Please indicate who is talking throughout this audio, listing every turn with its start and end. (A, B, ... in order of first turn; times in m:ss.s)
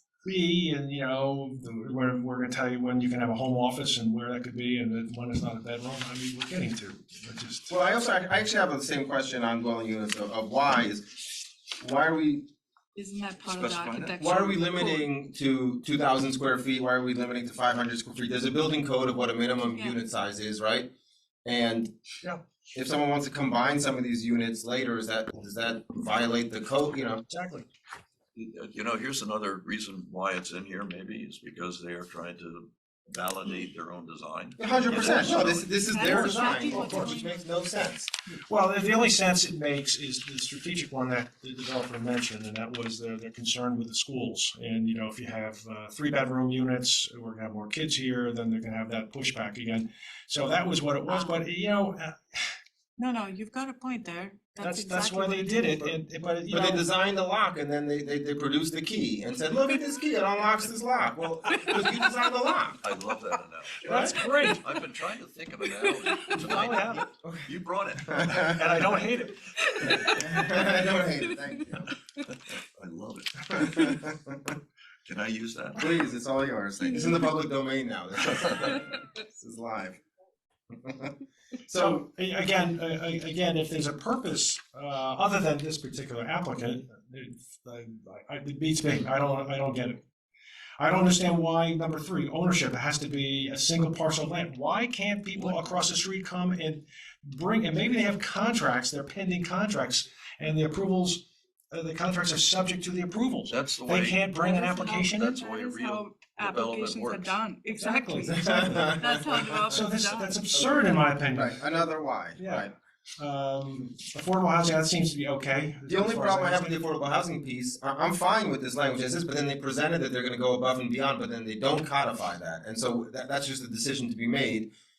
0:00.2-0:07.8 A
0:07.7-0:12.5 B
0:12.9-0:15.1 C
0:13.4-0:14.2 D
0:14.2-0:20.9 B
0:19.7-0:20.0 C
0:21.4-0:21.9 B
0:22.7-0:27.2 B
0:27.3-0:27.7 A
0:28.3-0:36.6 D
0:34.6-0:38.1 B
0:35.8-0:37.4 C
0:36.6-0:37.1 A
0:38.5-0:52.5 A
0:51.1-0:51.3 C
0:53.0-0:55.8 C
0:54.6-0:56.9 A
0:56.5-1:02.8 B
1:02.8-1:08.6 D
1:03.8-1:04.6 A
1:05.6-1:06.4 C
1:06.3-1:07.0 A
1:07.2-1:07.5 B
1:08.0-1:08.9 B
1:08.3-1:09.5 A
1:09.5-1:10.7 C
1:09.8-1:11.9 B
1:12.2-1:14.1 D
1:13.5-1:14.4 B
1:15.1-1:16.0 D
1:15.8-1:20.0 B
1:16.8-1:17.2 C
1:18.4-1:18.7 D
1:20.7-1:22.0 B
1:21.7-1:30.0 A
1:30.8-1:45.3 A
1:35.4-1:35.7 D
1:43.5-1:47.3 D
1:44.4-1:50.4 C
1:47.7-1:49.0 A
1:48.3-1:49.6 B
1:49.7-1:51.6 A
1:50.6-1:52.7 B
1:52.4-1:56.7 A
1:55.9-2:04.7 B